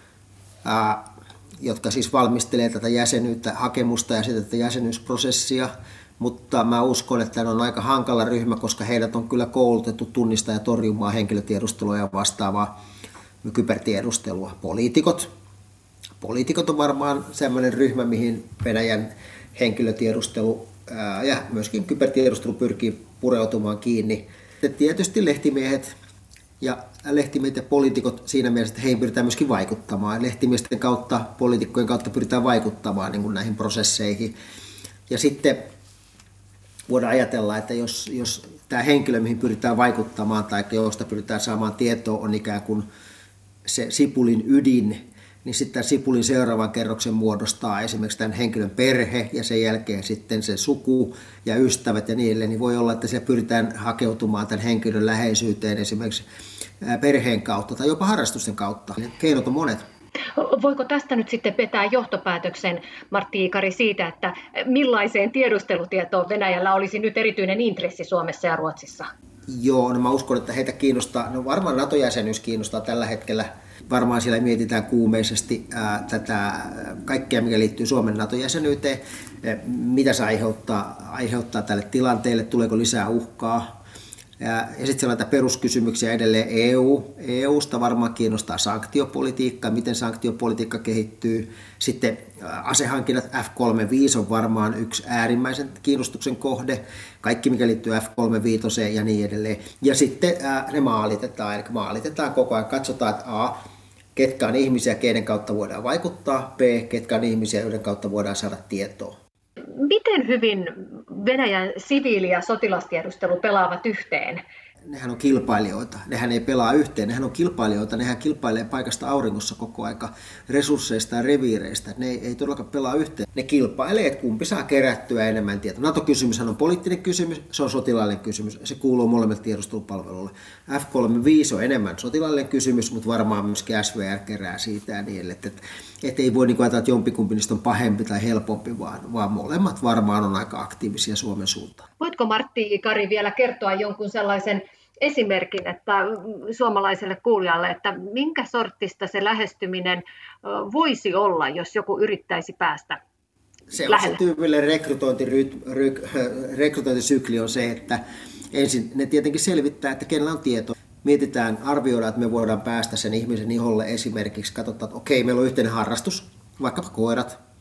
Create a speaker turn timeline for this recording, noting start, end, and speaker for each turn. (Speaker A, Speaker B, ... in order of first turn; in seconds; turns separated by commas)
Speaker A: 0.6-12.7, Speaker A: 13.4-15.3, Speaker A: 16.2-25.9, Speaker A: 26.6-34.3, Speaker A: 35.1-35.7, Speaker A: 36.9-42.9, Speaker A: 43.6-56.2, Speaker A: 56.8-59.8, Speaker B: 60.3-69.1, Speaker A: 69.5-83.8, Speaker A: 84.4-103.6, Speaker A: 104.2-109.2, Speaker B: 109.7-114.4, Speaker A: 114.9-141.9, Speaker B: 142.0-153.0, Speaker A: 153.7-167.4, Speaker B: 153.8-154.2